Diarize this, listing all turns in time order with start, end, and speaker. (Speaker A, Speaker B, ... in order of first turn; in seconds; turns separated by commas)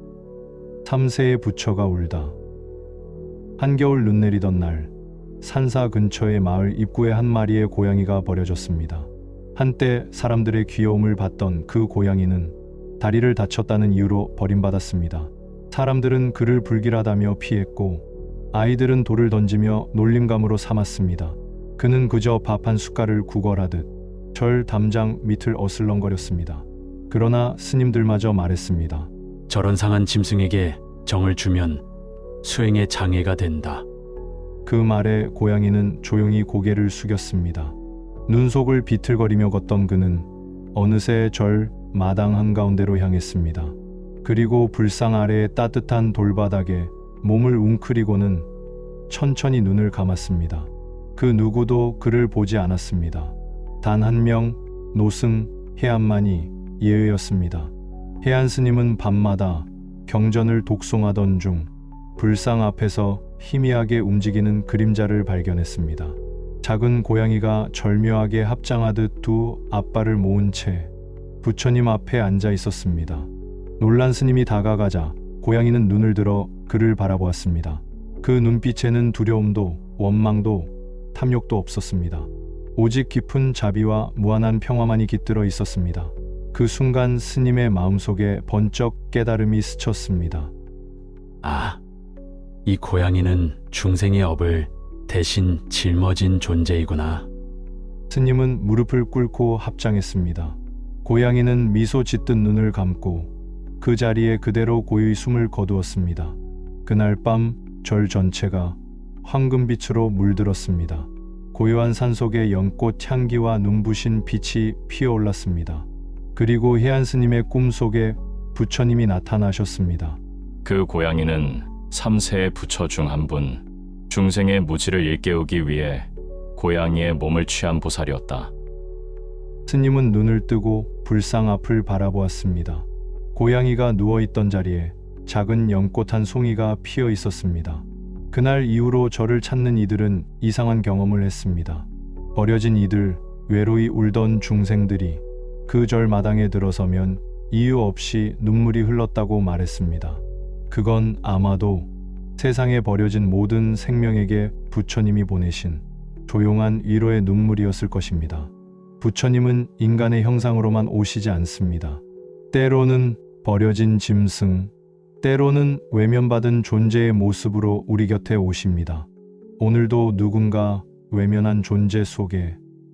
Speaker A: 0.8-2.4, Speaker A: 3.6-29.1, Speaker B: 29.5-31.8, Speaker B: 32.4-33.9, Speaker A: 34.6-37.8, Speaker A: 38.3-48.5, Speaker A: 49.1-70.9, Speaker A: 71.4-90.5, Speaker B: 91.4-91.8, Speaker B: 92.7-97.3, Speaker A: 98.1-120.2, Speaker C: 120.7-128.5, Speaker A: 129.7-169.1, Speaker A: 169.6-172.6